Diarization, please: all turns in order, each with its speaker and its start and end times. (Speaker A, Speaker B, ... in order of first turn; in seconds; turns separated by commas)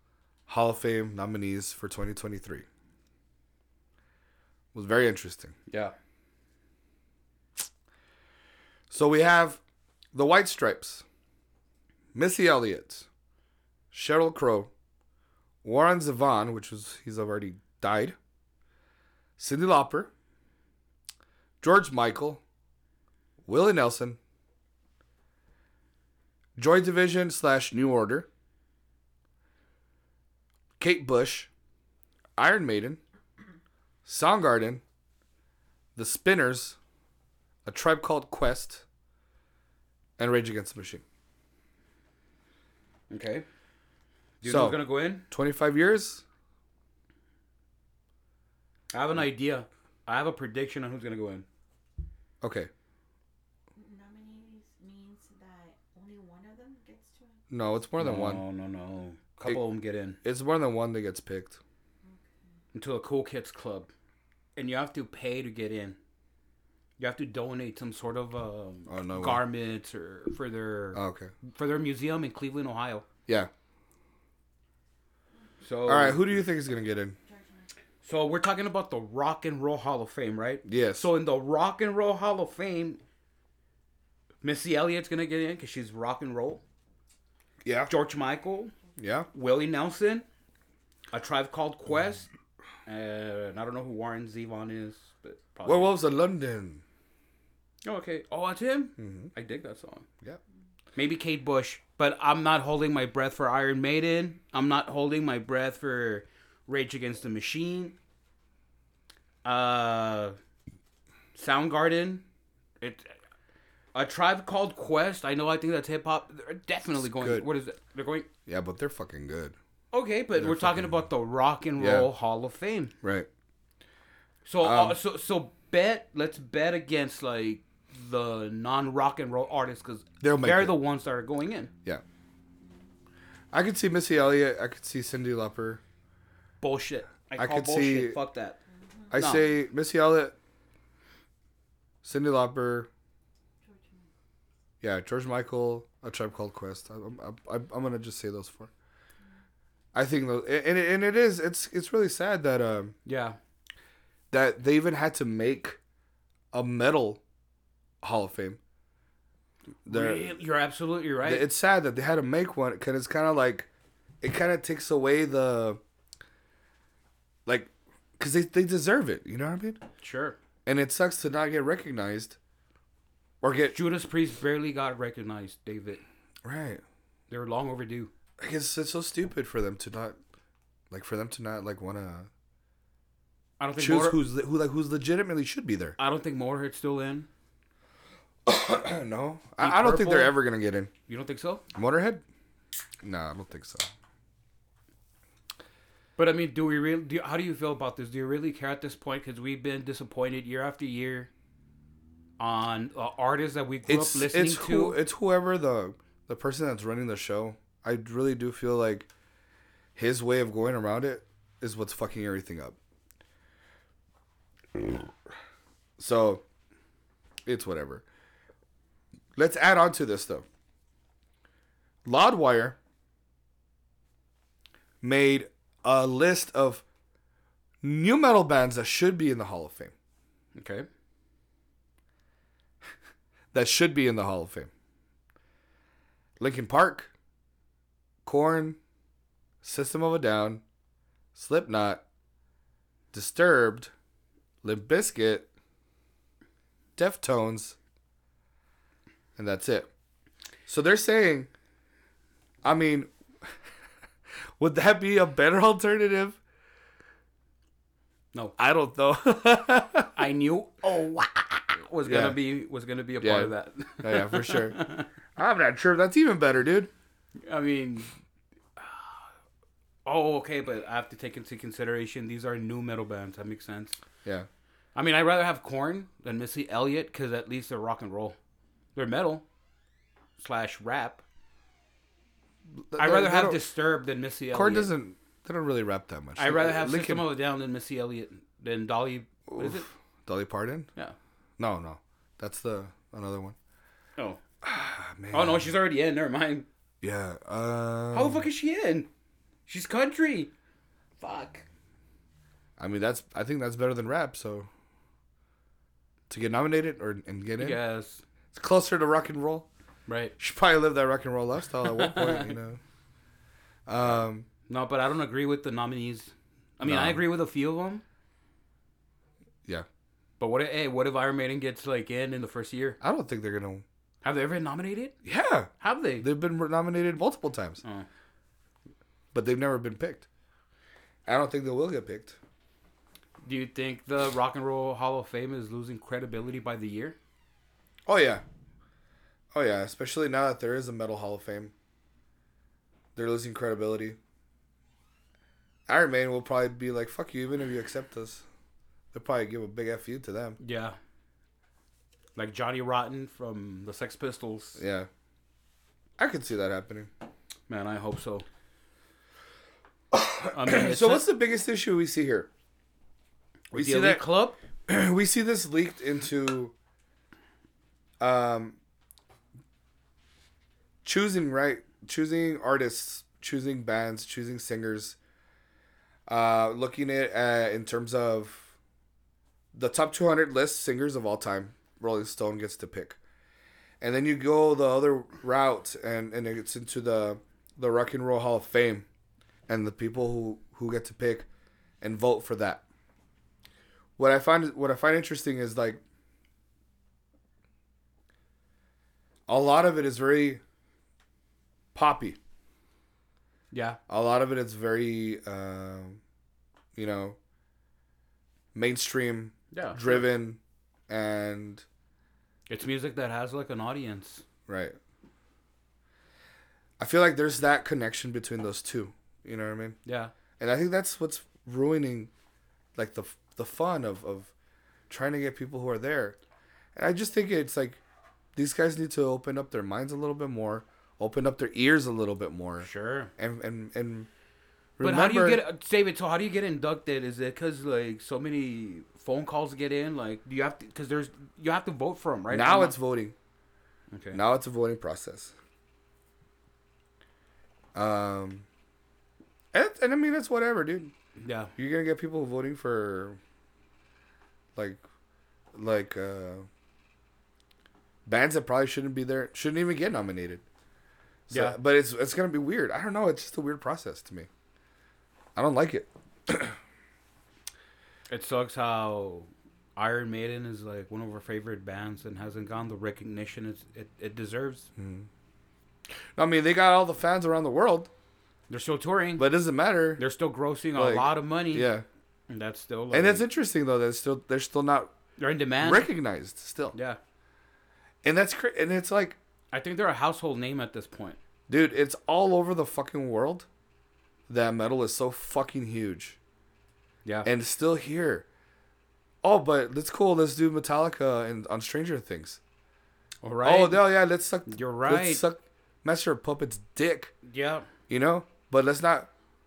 Speaker A: 0.5-2.6, Speaker A: 4.7-5.5, Speaker B: 5.7-5.9, Speaker A: 8.9-9.6, Speaker A: 10.1-11.0, Speaker A: 12.1-13.1, Speaker A: 13.9-14.7, Speaker A: 15.6-18.1, Speaker A: 19.4-20.1, Speaker A: 21.6-22.4, Speaker A: 23.4-24.2, Speaker A: 26.6-28.3, Speaker A: 30.8-31.5, Speaker A: 32.4-33.0, Speaker A: 34.0-34.8, Speaker A: 35.9-36.8, Speaker A: 37.6-38.8, Speaker A: 40.2-41.0, Speaker B: 43.1-43.5, Speaker B: 44.4-45.2, Speaker A: 44.4-46.2, Speaker B: 48.9-51.5, Speaker A: 52.4-52.7, Speaker C: 53.7-57.4, Speaker A: 57.5-58.4, Speaker B: 58.0-60.2, Speaker A: 60.2-61.6, Speaker C: 62.0-62.3, Speaker B: 62.7-63.9, Speaker B: 64.5-66.0, Speaker B: 67.0-73.0, Speaker A: 68.9-69.4, Speaker A: 70.9-71.3, Speaker B: 75.6-76.4, Speaker A: 75.9-77.2, Speaker C: 77.2-77.7, Speaker B: 78.0-83.0, Speaker A: 80.7-81.0, Speaker B: 84.4-86.6, Speaker A: 87.6-87.9, Speaker B: 87.9-88.7, Speaker A: 89.0-89.3, Speaker B: 89.3-90.2, Speaker B: 91.1-92.3, Speaker B: 92.8-95.9, Speaker A: 95.6-96.8, Speaker B: 97.8-100.0, Speaker A: 99.0-99.3, Speaker B: 101.0-108.0, Speaker B: 109.4-110.4, Speaker B: 111.3-112.2, Speaker B: 112.8-113.1, Speaker B: 113.9-118.3, Speaker A: 117.0-117.5, Speaker A: 118.5-119.5, Speaker B: 119.9-122.9, Speaker A: 120.3-121.1, Speaker A: 121.8-122.1, Speaker A: 123.0-123.3, Speaker B: 124.5-131.7, Speaker A: 124.6-125.0, Speaker A: 130.2-130.8, Speaker A: 133.5-135.8, Speaker B: 136.6-138.6, Speaker A: 137.3-138.2, Speaker C: 138.7-139.1, Speaker A: 139.1-140.3, Speaker B: 139.1-139.4, Speaker A: 142.0-142.9, Speaker C: 143.6-144.1, Speaker A: 144.8-148.7, Speaker A: 149.9-152.9, Speaker B: 153.0-153.4, Speaker A: 154.3-155.8, Speaker A: 156.5-157.2, Speaker A: 158.0-158.6, Speaker A: 159.8-160.3, Speaker B: 159.8-161.4, Speaker A: 161.2-163.7, Speaker A: 164.2-165.8, Speaker A: 167.4-169.8, Speaker B: 170.0-170.4, Speaker A: 170.7-172.4, Speaker A: 173.4-173.8, Speaker B: 173.7-176.0, Speaker A: 176.4-176.8, Speaker B: 177.3-178.1, Speaker A: 178.4-180.2, Speaker A: 180.9-182.3, Speaker B: 183.6-184.2, Speaker A: 183.8-185.9, Speaker B: 186.0-187.3, Speaker A: 188.4-190.9, Speaker B: 189.6-190.4, Speaker B: 191.1-191.6, Speaker A: 191.7-192.2, Speaker A: 193.0-193.9, Speaker B: 196.2-201.3, Speaker B: 202.4-205.0, Speaker A: 203.9-209.1, Speaker A: 209.9-212.8, Speaker A: 216.0-216.4, Speaker A: 217.4-218.0, Speaker A: 219.3-220.4, Speaker A: 222.0-222.8, Speaker A: 225.0-226.8, Speaker A: 227.8-229.9, Speaker B: 230.5-230.9, Speaker A: 233.5-234.7, Speaker A: 236.4-237.1, Speaker A: 238.2-238.8, Speaker A: 239.6-240.6, Speaker A: 241.3-242.0, Speaker A: 243.1-243.9, Speaker A: 244.6-245.5, Speaker A: 247.0-247.8, Speaker A: 249.3-249.9, Speaker A: 250.7-251.5, Speaker A: 252.6-253.5, Speaker A: 254.6-256.4, Speaker A: 258.6-260.2, Speaker B: 260.1-265.1, Speaker A: 262.0-262.4, Speaker A: 263.2-264.8, Speaker A: 265.4-266.9, Speaker B: 267.4-268.1, Speaker B: 268.8-269.1, Speaker B: 270.0-274.0, Speaker B: 274.9-278.4, Speaker B: 278.9-279.4, Speaker B: 280.4-281.2, Speaker A: 282.8-283.6, Speaker B: 283.0-284.9, Speaker A: 284.5-287.3, Speaker B: 286.4-289.9, Speaker A: 289.5-290.9, Speaker A: 291.6-293.6, Speaker A: 294.6-295.7, Speaker B: 295.3-296.6, Speaker A: 297.0-298.5, Speaker B: 298.1-299.1, Speaker B: 299.7-300.5, Speaker B: 301.2-301.6, Speaker A: 302.8-304.7, Speaker A: 306.3-307.8, Speaker B: 307.6-308.2, Speaker A: 308.5-309.7, Speaker B: 310.1-310.3, Speaker A: 310.4-312.8, Speaker B: 311.9-312.5, Speaker A: 313.9-314.5, Speaker B: 314.7-318.0, Speaker A: 316.8-317.2, Speaker B: 320.4-323.0, Speaker A: 323.0-323.8, Speaker B: 324.2-325.1, Speaker A: 325.2-327.8, Speaker B: 325.8-326.2, Speaker A: 329.3-330.2, Speaker A: 331.2-332.4, Speaker B: 333.4-337.2, Speaker A: 338.1-338.4, Speaker A: 339.5-341.7, Speaker A: 343.1-344.2, Speaker A: 345.9-348.4, Speaker A: 349.1-350.6, Speaker B: 350.6-351.0, Speaker B: 352.4-354.8, Speaker A: 354.8-355.1, Speaker A: 356.2-357.1, Speaker B: 357.7-358.4, Speaker A: 360.1-362.5, Speaker B: 360.5-361.2, Speaker B: 363.7-364.6, Speaker A: 363.7-364.2, Speaker A: 364.9-366.7, Speaker A: 368.2-368.8, Speaker A: 371.0-375.2, Speaker A: 376.3-378.7, Speaker A: 379.7-383.2, Speaker A: 384.0-389.1, Speaker A: 389.7-391.5, Speaker A: 392.0-392.8, Speaker A: 394.2-396.0, Speaker A: 399.5-400.6, Speaker A: 401.9-402.4, Speaker B: 403.7-404.0, Speaker A: 404.1-406.2, Speaker A: 406.9-407.4, Speaker A: 408.7-411.8, Speaker B: 409.7-410.2, Speaker B: 412.7-414.4, Speaker A: 414.7-415.0, Speaker A: 417.0-420.0, Speaker B: 420.1-420.3, Speaker A: 420.6-422.3, Speaker A: 422.9-424.5, Speaker A: 425.1-426.4, Speaker A: 426.9-428.0, Speaker A: 428.5-434.3, Speaker B: 432.8-433.3, Speaker A: 435.0-435.6, Speaker B: 435.0-442.9, Speaker A: 442.5-443.3, Speaker B: 444.1-444.4, Speaker A: 444.3-445.5, Speaker A: 447.9-448.6, Speaker A: 449.7-451.1, Speaker B: 451.4-451.7, Speaker A: 451.8-453.4, Speaker A: 454.7-455.0, Speaker A: 455.7-456.6, Speaker A: 458.2-460.6, Speaker A: 461.5-464.5, Speaker B: 461.5-461.8, Speaker A: 465.6-466.8, Speaker B: 468.3-474.9, Speaker A: 475.0-475.3, Speaker A: 476.4-478.1, Speaker B: 478.7-479.4, Speaker A: 479.4-480.2, Speaker B: 480.2-481.9, Speaker A: 480.9-482.1, Speaker B: 482.5-483.4, Speaker A: 483.1-485.1, Speaker B: 485.4-486.1, Speaker A: 485.8-486.9, Speaker B: 486.9-487.2, Speaker A: 488.2-489.4, Speaker B: 489.7-491.4, Speaker A: 491.7-493.7, Speaker A: 494.5-496.4, Speaker A: 497.4-498.4, Speaker A: 499.4-502.6, Speaker B: 503.4-504.1, Speaker A: 503.6-507.3, Speaker B: 504.7-505.4, Speaker B: 507.4-507.9, Speaker A: 508.1-509.3